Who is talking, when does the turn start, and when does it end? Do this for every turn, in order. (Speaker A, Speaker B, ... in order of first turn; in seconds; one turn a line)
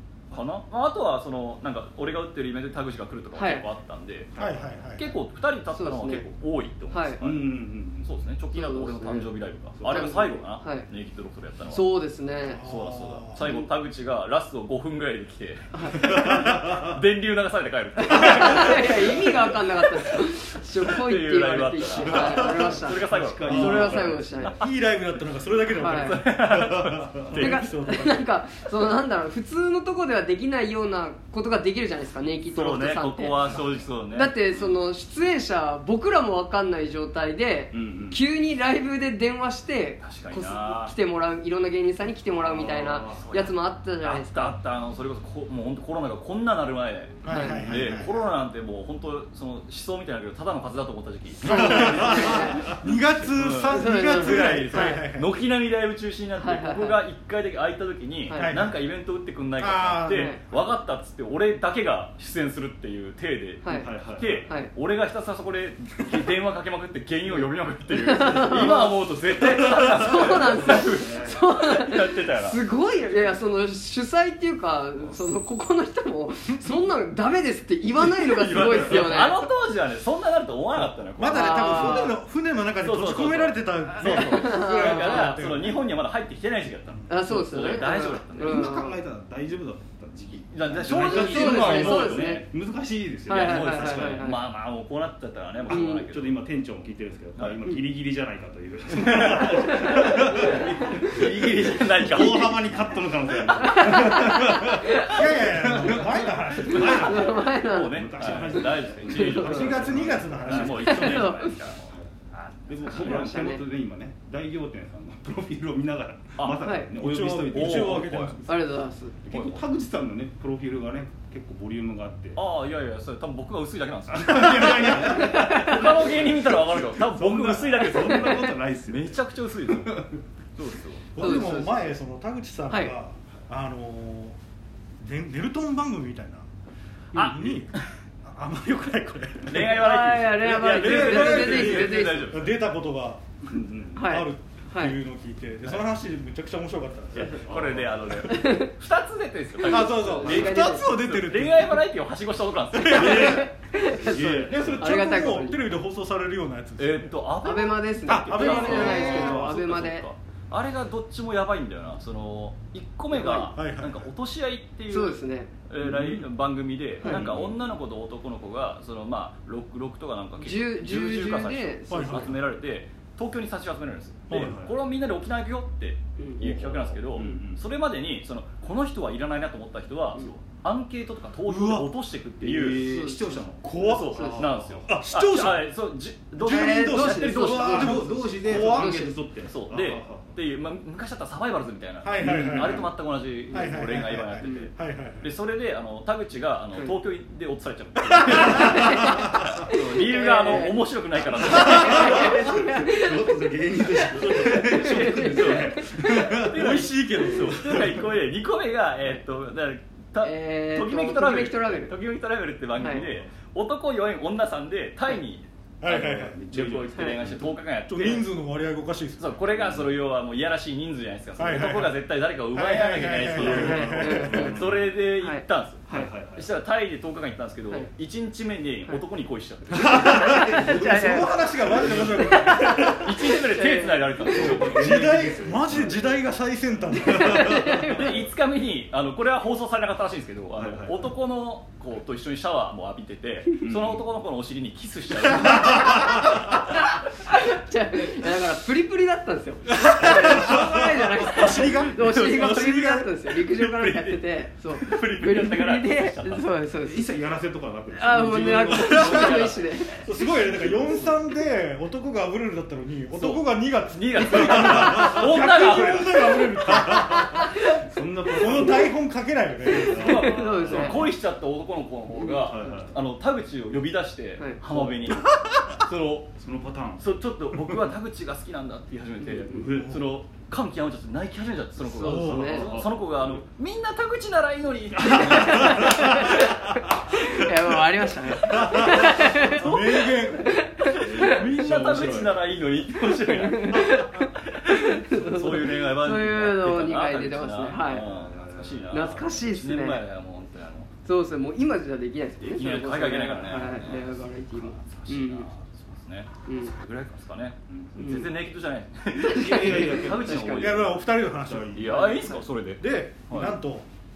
Speaker A: 0.3-4.3
Speaker B: 3.3-3.7
Speaker C: 4.3-4.8
Speaker D: 4.3-5.1
Speaker A: 4.8-11.8
Speaker B: 5.7-6.2
Speaker B: 6.9-7.2
Speaker C: 7.2-8.1
Speaker B: 8.5-10.9
Speaker C: 9.8-10.3
Speaker B: 11.6-12.6
Speaker D: 12.4-13.5
Speaker A: 12.5-20.3
Speaker B: 13.4-13.7
Speaker B: 15.7-16.2
Speaker D: 16.0-16.6
Speaker C: 16.2-16.9
Speaker B: 18.0-24.6
Speaker A: 20.8-24.7
Speaker C: 22.1-24.4
Speaker D: 22.1-22.7
Speaker D: 23.5-24.0
Speaker D: 24.6-28.3
Speaker B: 25.7-26.2
Speaker A: 25.8-27.7
Speaker B: 27.4-33.5
Speaker A: 32.5-34.7
Speaker B: 34.1-44.6
Speaker C: 37.7-38.2
Speaker A: 40.0-40.9
Speaker C: 42.4-43.2
Speaker A: 42.8-72.6
Speaker D: 47.2-48.1
Speaker B: 47.2-47.6
Speaker B: 51.4-52.8
Speaker D: 51.4-55.3
Speaker B: 53.7-55.0
Speaker B: 56.4-57.0
Speaker B: 58.3-58.6
Speaker D: 58.4-58.8
Speaker D: 59.6-60.3
Speaker B: 60.1-60.4
Speaker B: 63.6-63.9
Speaker C: 63.7-64.5
Speaker B: 67.9-79.5
Speaker C: 69.8-71.4
Speaker A: 78.2-82.2
Speaker D: 81.2-85.8
Speaker B: 81.3-82.2
Speaker A: 82.8-88.6
Speaker B: 84.0-85.5
Speaker B: 87.1-89.0
Speaker C: 88.3-94.3
Speaker A: 90.5-92.4
Speaker B: 90.9-92.5
Speaker B: 93.3-94.4
Speaker A: 93.3-96.4
Speaker C: 95.6-112.1
Speaker B: 95.7-96.1
Speaker A: 97.4-97.7
Speaker A: 98.9-102.7
Speaker B: 99.6-101.0
Speaker B: 103.5-105.2
Speaker D: 104.7-107.2
Speaker B: 106.6-109.6
Speaker A: 107.3-113.5
Speaker D: 109.3-111.3
Speaker B: 110.8-111.7
Speaker C: 112.7-118.2
Speaker B: 112.8-113.6
Speaker A: 116.4-116.7
Speaker B: 116.6-116.9
Speaker D: 117.0-118.6
Speaker A: 117.5-118.4
Speaker B: 118.5-119.2
Speaker C: 119.2-122.4
Speaker A: 119.3-119.6
Speaker A: 122.3-131.2
Speaker C: 124.1-130.2
Speaker B: 128.0-128.5
Speaker D: 131.1-134.4
Speaker B: 131.2-131.8
Speaker D: 135.0-136.5
Speaker A: 137.1-137.8
Speaker D: 137.1-143.4
Speaker A: 139.4-142.6
Speaker B: 139.7-142.4
Speaker C: 143.5-144.1
Speaker B: 143.9-145.0
Speaker D: 143.9-147.4
Speaker A: 147.1-153.4
Speaker C: 147.2-148.3
Speaker B: 148.3-148.7
Speaker D: 149.6-151.8
Speaker B: 149.6-150.9
Speaker D: 152.7-153.5
Speaker B: 152.7-155.8
Speaker C: 152.9-155.1
Speaker D: 154.2-157.2
Speaker A: 156.8-183.0
Speaker B: 157.4-160.1
Speaker D: 158.1-159.3
Speaker C: 158.5-159.4
Speaker B: 163.1-163.5
Speaker D: 163.5-164.1
Speaker B: 164.9-165.5
Speaker C: 167.0-167.8
Speaker B: 170.4-172.3
Speaker D: 171.9-172.4
Speaker D: 174.3-174.7
Speaker C: 174.3-174.7
Speaker C: 176.4-177.6
Speaker D: 181.4-182.0
Speaker C: 182.4-185.0
Speaker B: 182.8-183.5
Speaker D: 183.6-184.2
Speaker A: 183.8-202.4
Speaker B: 184.1-184.5
Speaker D: 184.8-185.7
Speaker D: 186.4-189.0
Speaker B: 186.4-189.2
Speaker C: 187.5-190.3
Speaker D: 192.0-192.9
Speaker C: 192.2-192.9
Speaker B: 193.5-193.8
Speaker D: 193.5-195.3
Speaker B: 194.4-194.7
Speaker D: 198.4-198.8
Speaker B: 198.4-200.8
Speaker B: 201.4-205.9
Speaker C: 201.4-206.4
Speaker D: 201.6-202.0
Speaker A: 204.2-218.2
Speaker D: 205.9-208.1
Speaker B: 210.2-212.0
Speaker B: 212.8-213.0
Speaker C: 212.8-213.2
Speaker D: 215.8-216.4
Speaker C: 215.9-217.6
Speaker D: 217.9-219.3
Speaker A: 219.2-230.7
Speaker C: 219.5-219.9
Speaker D: 221.3-224.6
Speaker C: 223.3-225.0
Speaker B: 223.4-225.4
Speaker C: 225.9-226.5
Speaker D: 229.7-233.1
Speaker C: 229.8-232.3
Speaker B: 230.0-234.7
Speaker A: 232.6-235.1
Speaker C: 234.2-236.1
Speaker D: 234.7-237.8
Speaker B: 237.0-238.2
Speaker C: 237.1-237.8
Speaker A: 237.7-246.4
Speaker C: 240.6-241.1
Speaker C: 243.6-244.0
Speaker B: 245.8-257.1
Speaker D: 249.9-253.1
Speaker A: 251.4-256.5
Speaker C: 256.8-259.4
Speaker B: 257.9-259.9
Speaker A: 258.1-261.1
Speaker D: 258.8-259.3
Speaker D: 260.0-267.6
Speaker A: 263.1-267.1
Speaker C: 264.8-265.3
Speaker C: 266.8-268.9
Speaker B: 267.1-267.7
Speaker D: 268.4-270.4
Speaker B: 269.7-271.1
Speaker C: 269.8-271.1
Speaker A: 269.8-276.4
Speaker C: 272.3-273.0
Speaker D: 275.2-275.5
Speaker C: 276.4-277.0
Speaker A: 277.0-286.4
Speaker B: 279.2-279.6
Speaker C: 279.5-280.0
Speaker D: 279.7-280.0
Speaker B: 281.9-282.7
Speaker D: 281.9-282.5
Speaker C: 282.4-283.4
Speaker B: 285.1-291.6
Speaker C: 285.1-286.1
Speaker D: 288.4-290.7
Speaker A: 289.6-290.0
Speaker A: 290.8-300.9
Speaker C: 290.9-292.5
Speaker B: 293.2-298.1
Speaker C: 297.9-299.2
Speaker B: 298.9-300.0
Speaker B: 301.0-305.5
Speaker A: 302.4-311.1
Speaker C: 303.7-304.1
Speaker B: 306.4-306.7
Speaker C: 307.7-308.3
Speaker B: 308.0-308.3
Speaker B: 309.2-310.8
Speaker C: 309.2-310.6
Speaker D: 310.6-312.1
Speaker C: 311.4-312.4
Speaker A: 311.7-313.6
Speaker D: 312.8-313.9